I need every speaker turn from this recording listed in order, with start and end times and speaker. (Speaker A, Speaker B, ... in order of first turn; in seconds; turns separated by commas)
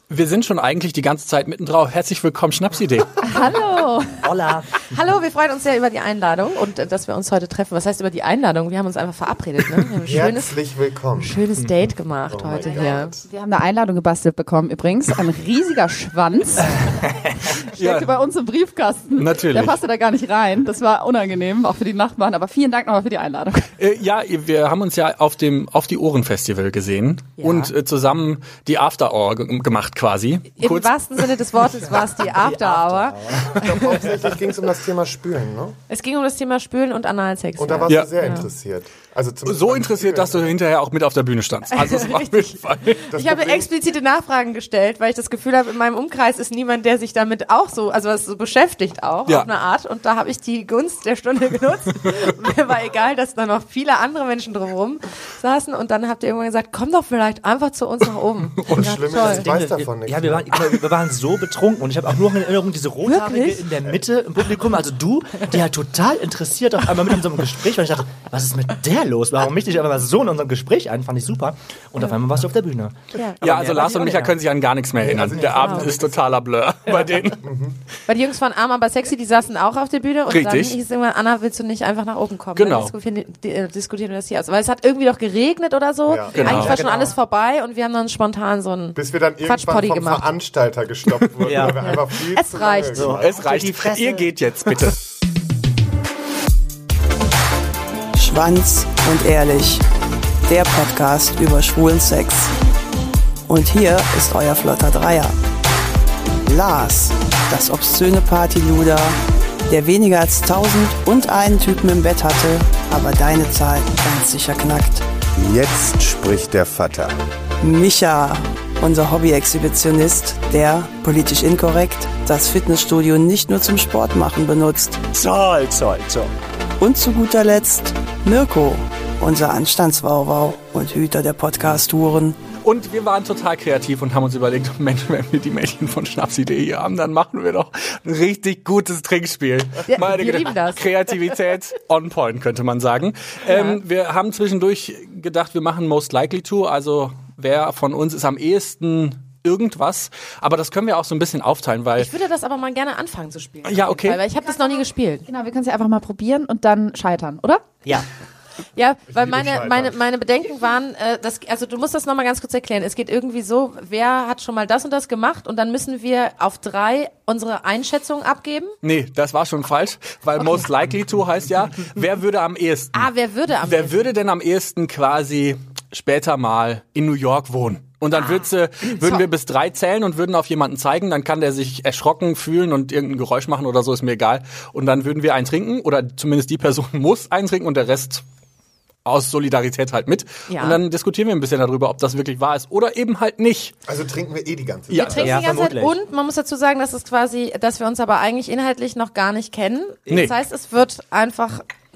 Speaker A: 0.1-3.3, Speaker B: 3.2-4.3, Speaker C: 4.2-4.9, Speaker D: 4.8-10.6, Speaker E: 10.0-11.4, Speaker D: 11.2-13.2, Speaker E: 12.3-13.2, Speaker B: 12.6-16.9, Speaker B: 17.4-23.7, Speaker A: 17.7-18.1, Speaker A: 19.2-19.8, Speaker A: 23.8-31.4, Speaker D: 27.4-27.7, Speaker D: 30.6-34.1, Speaker C: 32.1-34.0, Speaker E: 33.6-35.8, Speaker D: 35.9-38.5, Speaker E: 37.6-40.5, Speaker A: 37.9-38.4, Speaker A: 39.5-43.1, Speaker D: 41.7-59.5, Speaker E: 43.1-43.7, Speaker A: 58.6-58.9, Speaker E: 58.7-60.8, Speaker C: 59.1-74.4, Speaker D: 63.1-63.7, Speaker D: 73.1-74.2, Speaker A: 73.4-77.5, Speaker E: 75.0-76.3, Speaker D: 75.5-75.9, Speaker E: 77.4-77.8, Speaker D: 78.1-90.3, Speaker A: 80.3-80.8, Speaker A: 82.6-82.9, Speaker E: 86.1-86.7, Speaker A: 86.3-86.8, Speaker C: 86.5-87.1, Speaker E: 89.0-93.5, Speaker C: 91.4-92.0, Speaker D: 91.6-93.2, Speaker C: 92.9-94.3, Speaker A: 93.2-95.0, Speaker F: 98.2-99.9, Speaker F: 100.5-102.5, Speaker F: 103.5-105.4, Speaker F: 106.5-115.1, Speaker E: 115.4-117.2, Speaker F: 117.6-125.2, Speaker C: 125.1-126.3, Speaker F: 126.8-132.4, Speaker A: 132.6-152.1, Speaker D: 139.9-140.9, Speaker D: 143.4-143.8, Speaker D: 151.9-155.3, Speaker A: 153.6-154.2, Speaker B: 154.6-157.7, Speaker D: 158.8-168.8, Speaker E: 159.1-160.0, Speaker A: 168.8-188.2, Speaker D: 172.9-174.1, Speaker D: 178.1-178.5, Speaker A: 189.1-193.8, Speaker D: 190.5-190.8, Speaker E: 193.9-195.5, Speaker A: 194.9-195.3, Speaker D: 194.9-201.7, Speaker C: 195.1-196.0, Speaker A: 200.1-200.4